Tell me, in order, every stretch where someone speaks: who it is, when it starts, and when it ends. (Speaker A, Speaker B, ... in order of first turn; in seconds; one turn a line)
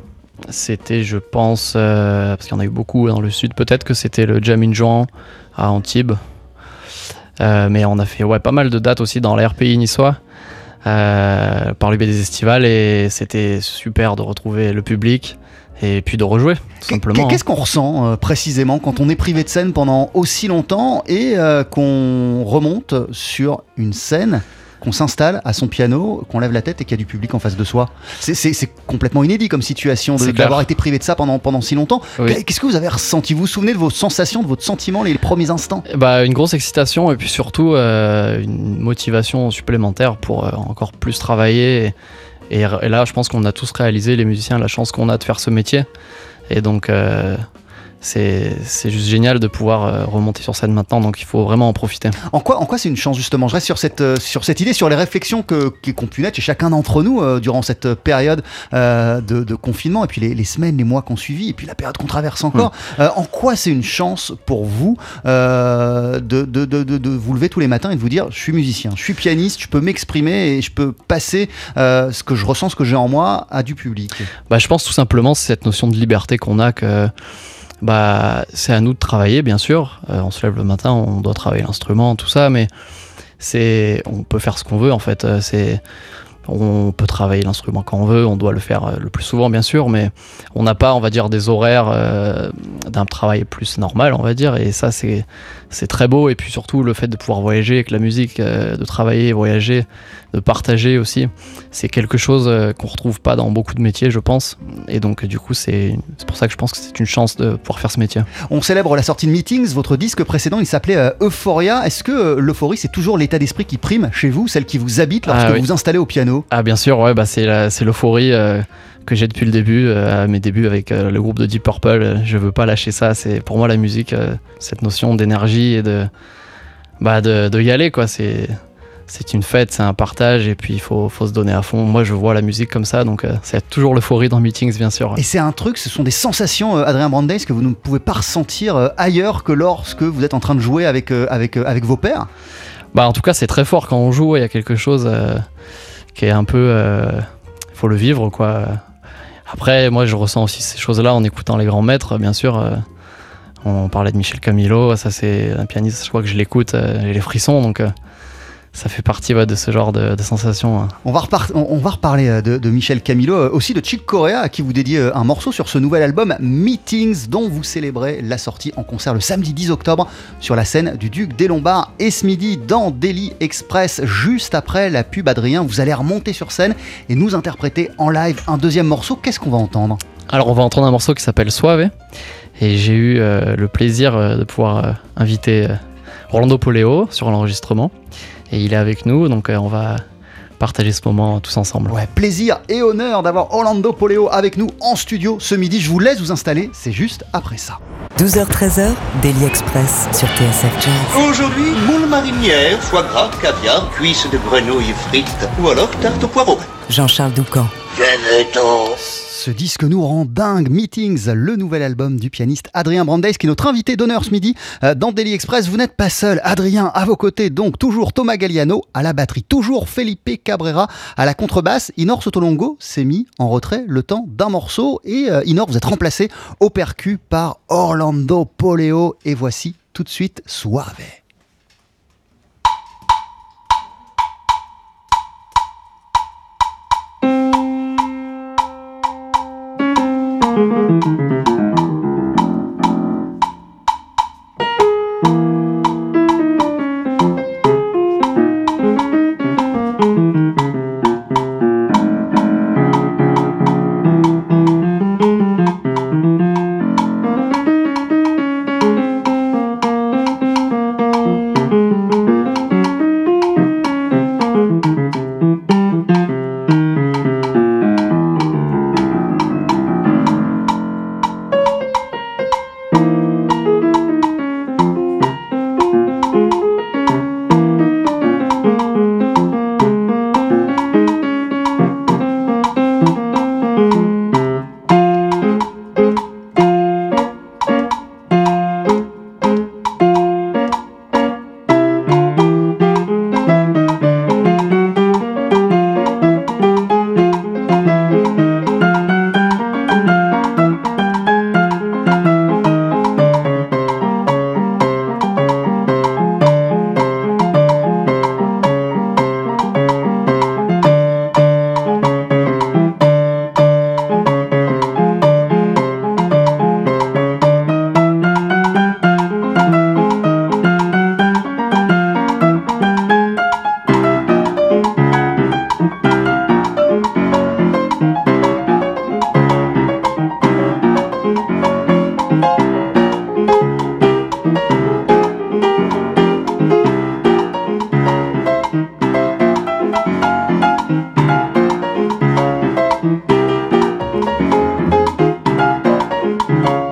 Speaker A: 0.5-6.2
Speaker A: 7.4-10.2
Speaker A: 10.9-17.4
Speaker B: 16.9-35.8
Speaker A: 30.2-30.6
Speaker A: 35.9-41.9
Speaker A: 42.5-45.9
Speaker A: 46.5-47.4
Speaker A: 48.0-52.2
Speaker B: 52.3-74.3
Speaker A: 74.5-77.1
Speaker A: 77.8-82.7
Speaker A: 83.4-85.8
Speaker A: 86.5-108.3
Speaker B: 108.5-116.5
Speaker A: 115.3-115.7
Speaker A: 116.5-126.1
Speaker A: 127.0-128.6
Speaker A: 129.1-135.2
Speaker B: 135.2-142.3
Speaker A: 142.9-145.5
Speaker A: 146.2-148.8
Speaker A: 149.5-152.8
Speaker A: 153.6-157.9
Speaker A: 158.7-160.9
Speaker B: 161.1-180.0
Speaker A: 180.3-181.9
Speaker A: 182.6-185.8
Speaker A: 186.3-187.9
Speaker A: 188.5-190.0
Speaker A: 190.6-192.0
Speaker B: 191.9-197.8
Speaker C: 198.2-201.3
Speaker D: 201.1-206.7
Speaker C: 206.9-207.8
Speaker D: 207.9-209.0
Speaker B: 208.9-231.2